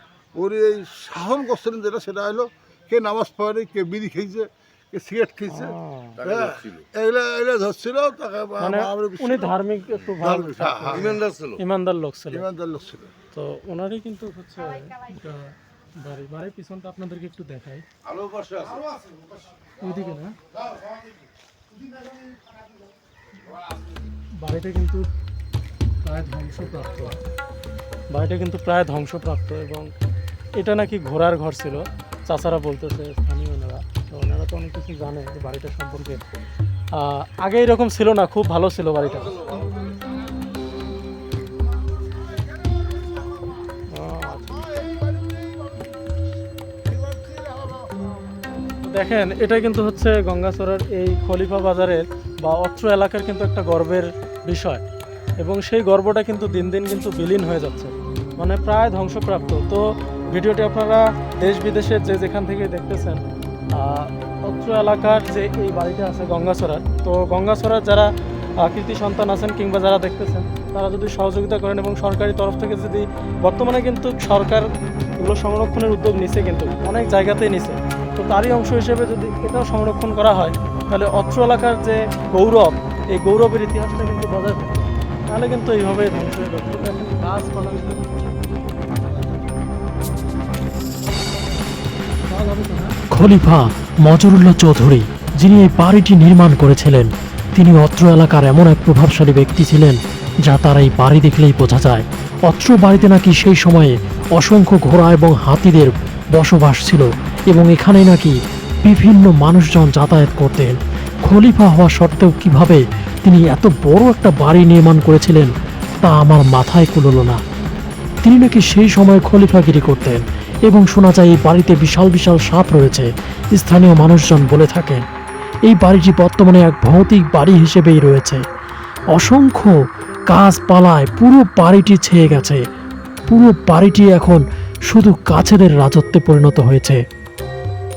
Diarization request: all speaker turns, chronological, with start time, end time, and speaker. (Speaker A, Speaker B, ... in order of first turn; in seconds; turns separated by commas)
Speaker A: 0.3-5.7, Speaker B: 5.5-6.2, Speaker C: 6.2-6.9, Speaker A: 6.2-9.5, Speaker B: 8.6-12.4, Speaker A: 10.2-11.2, Speaker C: 10.9-11.6, Speaker A: 12.3-13.1, Speaker B: 13.3-17.8, Speaker C: 18.0-19.0, Speaker B: 19.8-20.3, Speaker B: 24.4-25.1, Speaker B: 26.0-27.2, Speaker B: 28.1-29.9, Speaker B: 30.6-36.2, Speaker B: 37.0-39.3, Speaker C: 39.0-40.0, Speaker A: 42.6-43.5, Speaker B: 43.9-44.7, Speaker A: 44.6-46.0, Speaker A: 46.9-47.9, Speaker B: 48.8-54.8, Speaker B: 55.4-63.2, Speaker B: 63.8-68.1, Speaker B: 68.6-74.7, Speaker B: 75.2-88.1, Speaker B: 92.3-92.9, Speaker D: 93.1-115.5, Speaker D: 116.0-117.4, Speaker D: 118.2-125.0, Speaker D: 125.7-128.4, Speaker D: 129.1-129.8, Speaker D: 130.3-132.6, Speaker D: 133.3-137.0